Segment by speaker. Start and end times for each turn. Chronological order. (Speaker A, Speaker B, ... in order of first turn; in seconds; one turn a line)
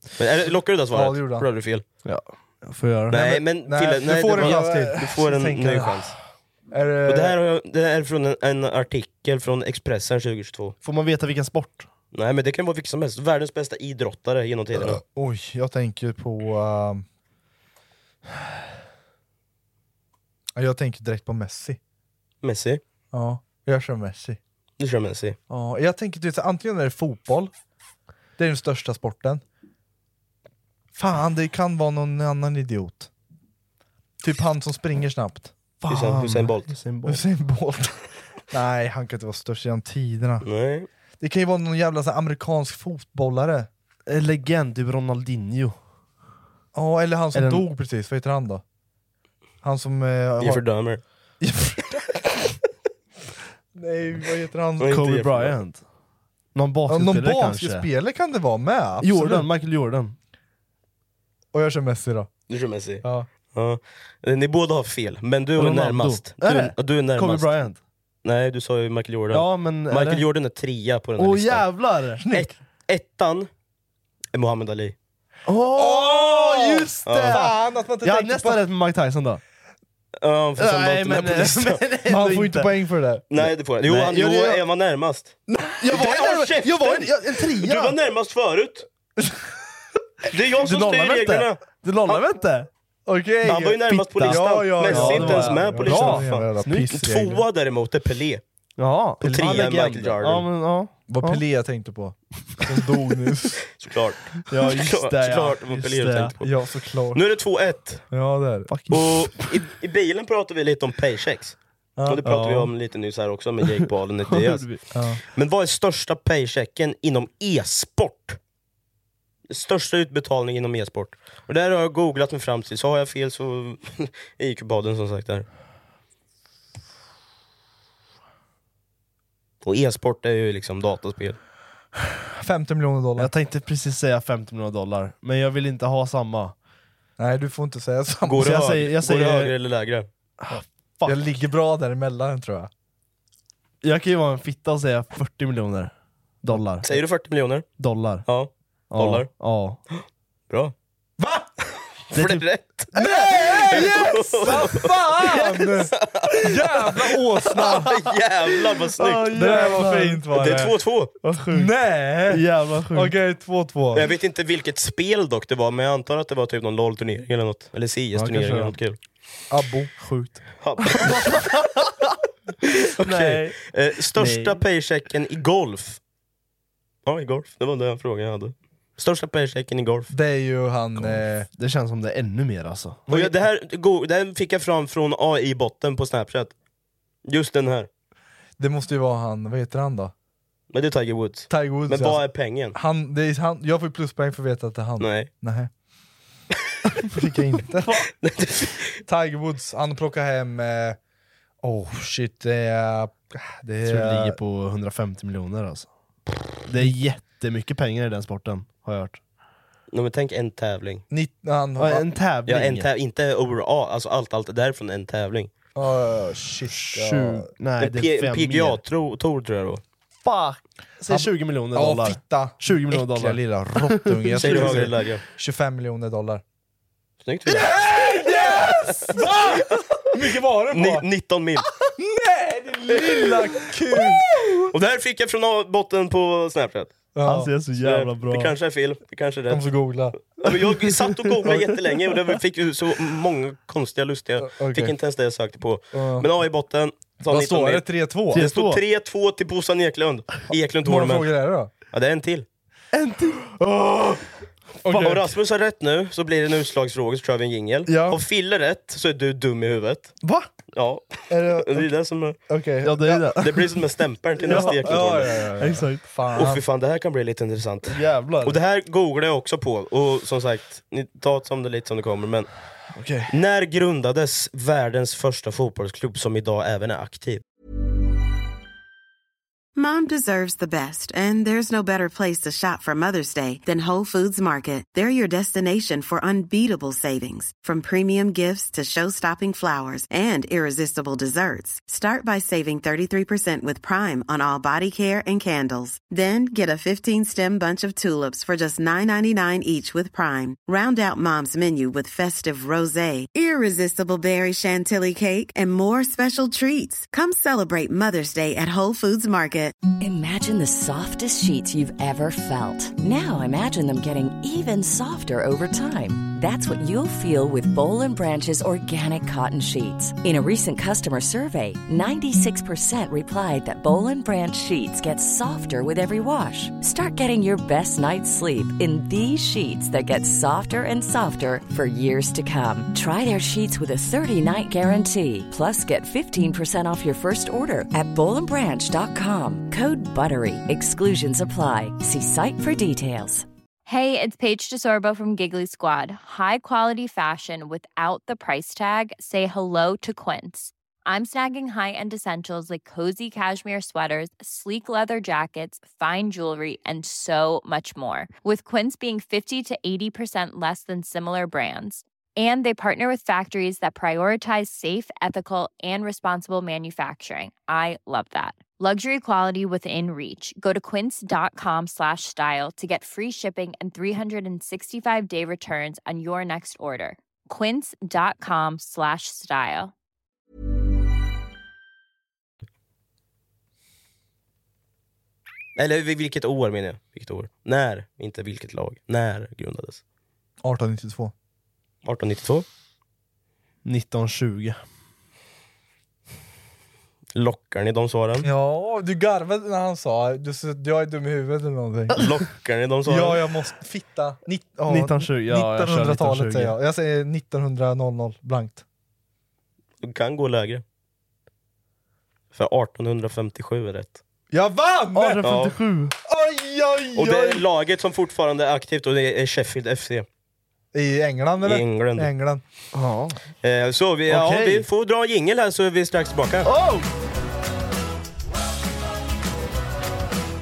Speaker A: 0.2-1.9
Speaker B: 0.9-1.5
Speaker C: 2.0-3.5
Speaker A: 3.1-6.2
Speaker B: 3.6-5.0
Speaker C: 4.0-6.2
Speaker B: 6.7-7.4
Speaker A: 7.1-10.8
Speaker C: 10.8-11.9
Speaker A: 12.1-15.0
Speaker B: 14.8-17.1
Speaker B: 20.6-21.8
Speaker A: 22.4-22.8
Speaker B: 23.1-24.4
Speaker A: 24.8-25.4
Speaker B: 25.5-27.5
Speaker B: 28.4-29.4
Speaker B: 30.9-33.1
Speaker B: 34.2-35.5
Speaker C: 35.8-37.2
Speaker A: 35.9-36.7
Speaker B: 37.0-40.5
Speaker A: 40.4-40.9
Speaker B: 41.2-43.7
Speaker C: 44.1-45.8
Speaker B: 46.7-48.6
Speaker C: 47.3-47.7
Speaker B: 49.6-50.6
Speaker A: 50.4-51.0
Speaker C: 51.4-51.7
Speaker B: 53.8-55.0
Speaker A: 54.8-55.6
Speaker C: 54.8-55.8
Speaker C: 56.5-57.9
Speaker B: 56.9-59.5
Speaker C: 59.0-60.2
Speaker B: 61.5-62.3
Speaker A: 62.5-67.6
Speaker B: 63.0-63.3
Speaker C: 65.6-67.8
Speaker A: 68.2-71.7
Speaker C: 69.3-70.2
Speaker C: 71.2-72.3
Speaker B: 72.2-72.5
Speaker A: 72.3-73.5
Speaker A: 74.3-75.0
Speaker C: 75.5-79.4
Speaker B: 75.7-78.6
Speaker A: 77.1-77.4
Speaker A: 80.2-81.8
Speaker C: 80.6-82.8
Speaker B: 82.1-83.3
Speaker A: 83.3-85.4
Speaker C: 83.4-84.6
Speaker B: 85.5-86.1
Speaker C: 85.8-88.0
Speaker A: 85.9-88.9
Speaker A: 90.3-92.2
Speaker C: 90.6-92.7
Speaker B: 93.1-97.4
Speaker A: 93.5-98.4
Speaker C: 93.9-97.0
Speaker C: 98.8-101.4
Speaker B: 99.2-99.6
Speaker A: 99.2-100.5
Speaker B: 101.1-103.6
Speaker A: 103.7-106.5
Speaker C: 104.5-106.3
Speaker B: 106.4-107.2
Speaker A: 107.1-108.1
Speaker B: 108.1-108.7
Speaker C: 108.7-109.5
Speaker A: 108.9-114.8
Speaker B: 112.0-112.2
Speaker C: 112.2-112.7
Speaker C: 114.3-114.8
Speaker B: 114.9-115.2
Speaker A: 115.3-118.4
Speaker A: 119.5-125.5
Speaker A: 129.6-131.4
Speaker B: 132.4-133.3
Speaker C: 133.2-136.6
Speaker B: 137.2-138.5
Speaker A: 138.2-140.1
Speaker C: 138.4-139.6
Speaker C: 140.4-141.4
Speaker B: 141.1-142.7
Speaker C: 143.8-147.0
Speaker A: 146.8-147.7
Speaker C: 147.8-148.3
Speaker A: 148.2-149.3
Speaker C: 148.9-149.8
Speaker A: 149.9-150.7
Speaker B: 151.2-151.5
Speaker A: 152.1-152.9
Speaker C: 152.1-153.9
Speaker B: 152.9-157.9
Speaker A: 153.7-155.3
Speaker A: 155.9-156.9
Speaker A: 157.5-159.7
Speaker C: 159.0-160.3
Speaker B: 159.3-160.8
Speaker A: 160.3-161.1
Speaker C: 161.2-161.7
Speaker B: 161.5-164.1
Speaker C: 162.3-163.2
Speaker A: 163.9-169.0
Speaker C: 168.1-168.8
Speaker B: 169.5-169.9
Speaker C: 170.0-170.4
Speaker A: 170.6-171.5
Speaker C: 170.9-172.1
Speaker A: 173.0-176.0
Speaker C: 173.0-174.6
Speaker A: 177.1-180.1
Speaker B: 180.1-181.5
Speaker C: 181.0-183.0
Speaker B: 183.1-183.3
Speaker A: 183.1-186.5
Speaker A: 187.2-187.9
Speaker B: 188.6-190.1
Speaker A: 190.7-192.8
Speaker B: 191.5-195.7
Speaker A: 195.0-195.3
Speaker B: 197.1-198.1
Speaker A: 198.1-199.0
Speaker B: 199.1-201.0
Speaker B: 201.6-204.4
Speaker C: 203.8-205.9
Speaker C: 206.7-209.2
Speaker A: 209.9-211.0
Speaker B: 211.1-212.1
Speaker C: 211.8-212.9
Speaker A: 212.5-215.5
Speaker B: 215.8-217.5
Speaker C: 216.7-218.8
Speaker A: 217.8-219.8
Speaker C: 220.2-224.9
Speaker B: 221.1-226.4
Speaker A: 224.4-225.2
Speaker A: 227.2-227.7
Speaker B: 227.5-231.1
Speaker A: 230.7-231.7
Speaker B: 232.0-234.4
Speaker A: 234.7-236.9
Speaker B: 237.2-237.5
Speaker C: 237.2-238.5
Speaker A: 237.8-239.7
Speaker B: 239.5-240.2
Speaker A: 240.4-251.4
Speaker C: 240.4-241.8
Speaker B: 244.4-245.0
Speaker B: 245.9-246.3
Speaker B: 247.3-248.5
Speaker C: 248.3-248.8
Speaker B: 250.8-251.7
Speaker A: 251.9-252.5
Speaker C: 252.9-253.7
Speaker C: 254.8-255.3
Speaker B: 254.9-255.2
Speaker A: 255.0-260.1
Speaker B: 257.9-258.2
Speaker A: 260.7-262.4
Speaker B: 261.3-261.9
Speaker B: 262.5-263.3
Speaker C: 262.8-263.7
Speaker A: 263.4-265.4
Speaker C: 264.4-266.5
Speaker B: 264.4-266.6
Speaker A: 266.3-272.5
Speaker C: 267.9-268.6
Speaker C: 272.9-273.3
Speaker A: 273.3-277.4
Speaker D: 279.8-309.8
Speaker E: 309.9-343.5
Speaker F: 343.9-379.9
Speaker A: 385.8-390.0
Speaker B: 390.6-391.3
Speaker A: 392.0-392.6
Speaker C: 393.9-394.8
Speaker A: 397.4-398.5
Speaker B: 398.4-402.2
Speaker A: 402.2-403.5
Speaker B: 403.1-408.8
Speaker C: 404.9-406.7
Speaker A: 410.0-410.8
Speaker A: 412.6-414.2
Speaker B: 414.5-415.4
Speaker C: 415.1-416.1
Speaker A: 415.4-415.8
Speaker B: 416.2-417.6
Speaker A: 417.1-420.3
Speaker B: 420.9-422.6
Speaker A: 421.6-422.3
Speaker C: 422.9-423.4
Speaker A: 423.6-426.7
Speaker C: 424.3-424.9
Speaker C: 426.6-427.1